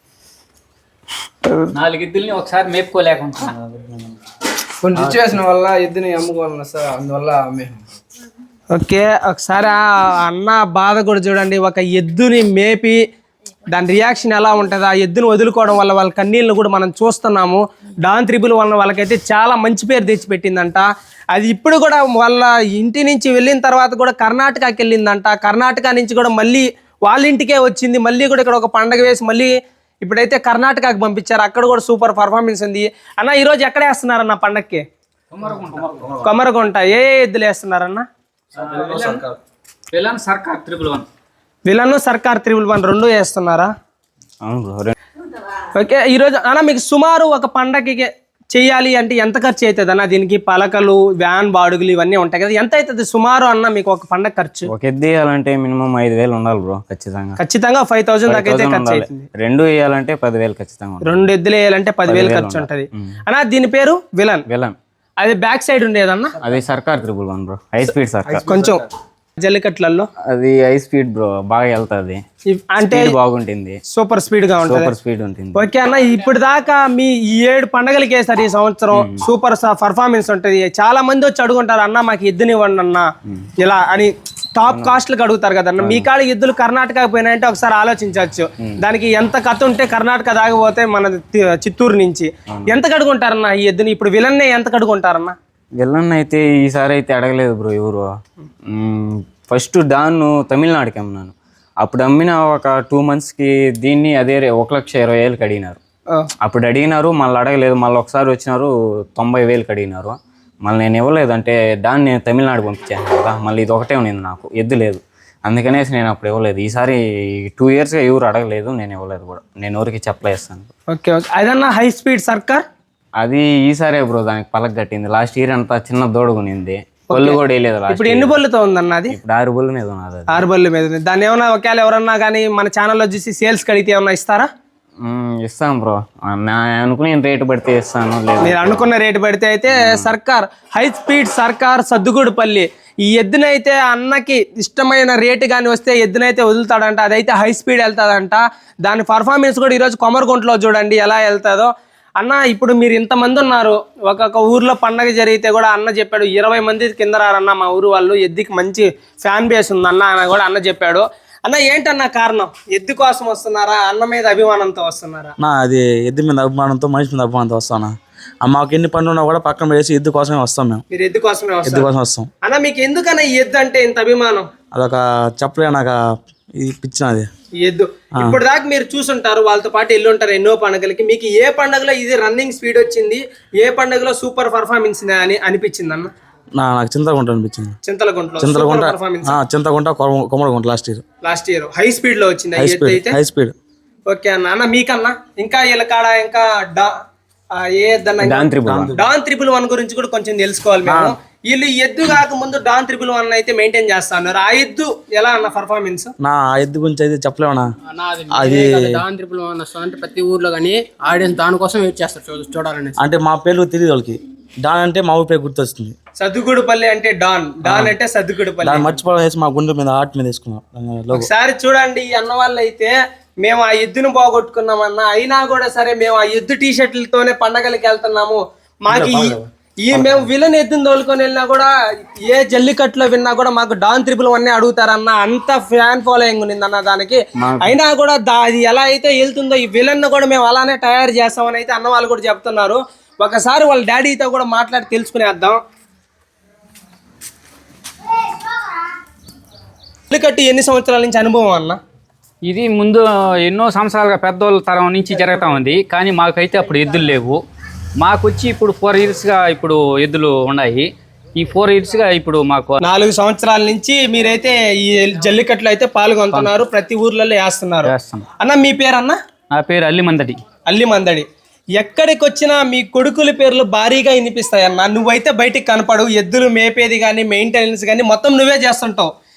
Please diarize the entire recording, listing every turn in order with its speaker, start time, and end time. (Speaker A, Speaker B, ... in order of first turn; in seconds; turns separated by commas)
Speaker A: 1.7-4.0, Speaker B: 4.8-7.8, Speaker C: 8.7-13.0, Speaker C: 13.7-29.5, Speaker C: 30.0-34.8, Speaker A: 35.3-36.2, Speaker C: 36.1-38.0, Speaker A: 38.6-39.3, Speaker A: 39.9-41.0, Speaker C: 41.6-43.7, Speaker D: 44.4-44.9, Speaker C: 45.7-54.7, Speaker D: 54.7-57.4, Speaker C: 57.4-59.2, Speaker D: 58.3-61.2, Speaker C: 61.0-64.4, Speaker D: 62.0-63.1, Speaker D: 64.5-64.8, Speaker C: 65.2-66.4, Speaker D: 66.4-68.4, Speaker C: 68.4-68.8, Speaker C: 69.4-70.1, Speaker D: 70.3-72.2, Speaker C: 72.5-73.1, Speaker D: 72.8-73.8, Speaker C: 73.9-74.9, Speaker D: 74.7-75.7, Speaker C: 75.5-83.1, Speaker D: 79.0-79.3, Speaker C: 83.6-95.3, Speaker D: 84.7-85.0, Speaker D: 85.8-86.1, Speaker D: 92.5-92.8, Speaker D: 95.8-98.1, Speaker D: 98.7-105.8, Speaker D: 106.4-120.7, Speaker C: 120.9-122.6, Speaker D: 123.2-128.4, Speaker C: 127.1-129.2, Speaker D: 129.1-130.4, Speaker C: 130.3-134.5, Speaker D: 135.1-138.9, Speaker C: 138.4-165.3, Speaker D: 139.7-140.1, Speaker E: 165.4-170.8, Speaker C: 170.9-171.9, Speaker E: 171.6-172.3, Speaker C: 172.4-174.5, Speaker E: 174.7-176.0, Speaker E: 176.5-177.3, Speaker C: 177.6-186.1, Speaker E: 186.6-187.8, Speaker C: 187.8-189.4, Speaker E: 188.4-191.0, Speaker C: 191.2-193.2, Speaker E: 192.6-193.5, Speaker C: 194.1-196.9, Speaker C: 197.6-206.1, Speaker D: 198.2-198.9, Speaker E: 198.7-199.0, Speaker E: 200.8-201.1, Speaker E: 206.2-207.7, Speaker F: 208.0-212.9, Speaker E: 208.3-209.0, Speaker E: 213.0-215.9, Speaker C: 216.2-218.9, Speaker E: 217.6-217.9, Speaker E: 218.6-221.3, Speaker C: 221.1-231.7, Speaker E: 228.9-230.3, Speaker C: 232.3-245.6, Speaker D: 237.4-237.7, Speaker C: 250.1-251.8, Speaker A: 252.4-257.4, Speaker A: 258.0-262.8, Speaker C: 262.8-269.2, Speaker A: 266.3-266.6, Speaker A: 267.8-268.3, Speaker A: 269.5-270.4, Speaker C: 270.7-271.2, Speaker C: 271.8-279.1